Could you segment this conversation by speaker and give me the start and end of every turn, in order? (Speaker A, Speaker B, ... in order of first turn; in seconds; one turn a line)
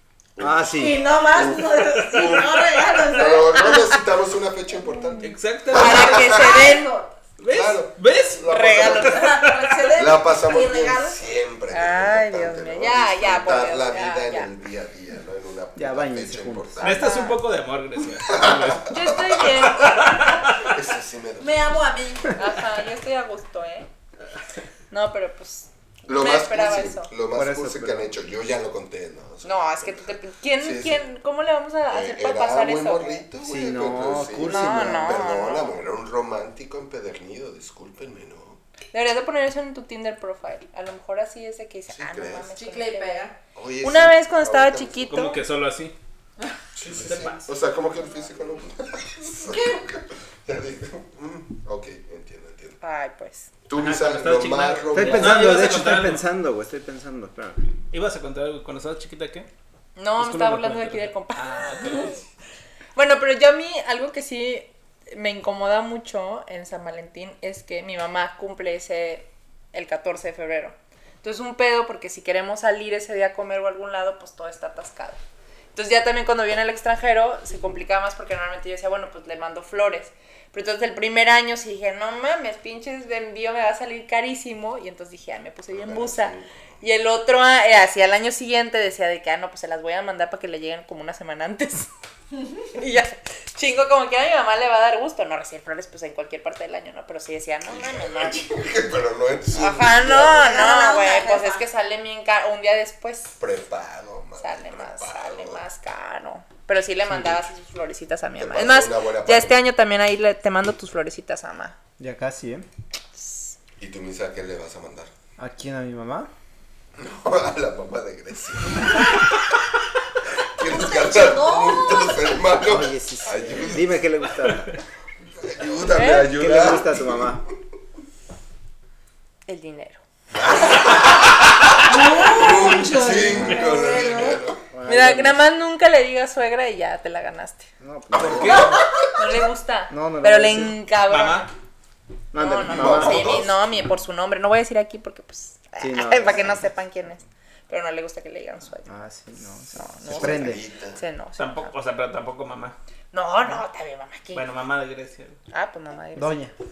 Speaker A: 0.4-6.6
Speaker B: 0.4-1.0
Speaker C: 0.7-3.7
Speaker D: 1.9-3.0
Speaker E: 3.6-3.9
Speaker E: 4.9-6.9
Speaker D: 5.2-6.3
Speaker C: 5.7-7.1
Speaker D: 7.4-9.9
Speaker A: 7.5-9.3
Speaker E: 8.5-9.3
Speaker C: 9.0-11.2
Speaker A: 9.9-17.1
Speaker E: 11.7-14.5
Speaker B: 15.8-16.9
Speaker D: 16.8-20.7
Speaker E: 16.8-17.4
Speaker A: 18.3-19.4
Speaker E: 18.9-20.2
Speaker A: 20.5-21.9
Speaker C: 21.4-22.6
Speaker E: 22.4-23.9
Speaker E: 24.9-27.1
Speaker A: 26.1-31.1
Speaker B: 27.3-28.1
Speaker E: 29.4-33.2
Speaker A: 31.9-38.6
Speaker B: 33.4-35.1
Speaker E: 34.5-35.8
Speaker E: 38.9-43.3
Speaker A: 41.9-42.5
Speaker C: 42.5-43.4
Speaker A: 43.5-45.1
Speaker E: 43.8-45.4
Speaker D: 45.1-45.9
Speaker A: 46.8-52.8
Speaker D: 47.0-47.5
Speaker C: 49.5-49.8
Speaker E: 52.8-53.5
Speaker A: 53.7-55.6
Speaker D: 53.8-56.2
Speaker B: 54.9-57.7
Speaker D: 57.9-59.5
Speaker E: 60.0-62.2
Speaker D: 60.2-62.2
Speaker E: 62.9-75.2
Speaker E: 75.7-91.9
Speaker A: 85.7-86.8
Speaker E: 92.8-98.5
Speaker A: 97.6-100.6
Speaker E: 99.5-103.4
Speaker C: 100.4-101.7
Speaker A: 103.4-105.6
Speaker E: 104.4-111.8
Speaker B: 107.1-107.4
Speaker A: 108.4-109.6
Speaker B: 112.0-112.7
Speaker E: 113.2-113.5
Speaker A: 113.8-115.1
Speaker B: 115.4-116.3
Speaker A: 117.0-119.2
Speaker A: 120.6-124.0
Speaker C: 120.7-122.3
Speaker B: 122.6-124.8
Speaker A: 125.3-127.5
Speaker E: 125.9-126.3
Speaker B: 126.3-127.4
Speaker E: 129.5-130.0
Speaker A: 130.3-134.6
Speaker C: 131.8-134.4
Speaker D: 133.3-133.8
Speaker B: 134.7-135.4
Speaker E: 134.9-137.7
Speaker B: 137.8-138.8
Speaker A: 138.1-139.3
Speaker D: 138.2-138.8
Speaker E: 139.1-141.5
Speaker B: 139.9-140.8
Speaker D: 141.1-141.5
Speaker B: 142.3-143.3
Speaker E: 142.3-148.9
Speaker A: 142.7-143.6
Speaker D: 142.9-143.4
Speaker B: 145.8-146.7
Speaker B: 148.9-150.6
Speaker E: 149.7-151.7
Speaker A: 150.0-151.0
Speaker D: 151.4-152.8
Speaker E: 153.1-154.4
Speaker D: 154.3-155.4
Speaker E: 155.5-156.5
Speaker B: 156.1-156.5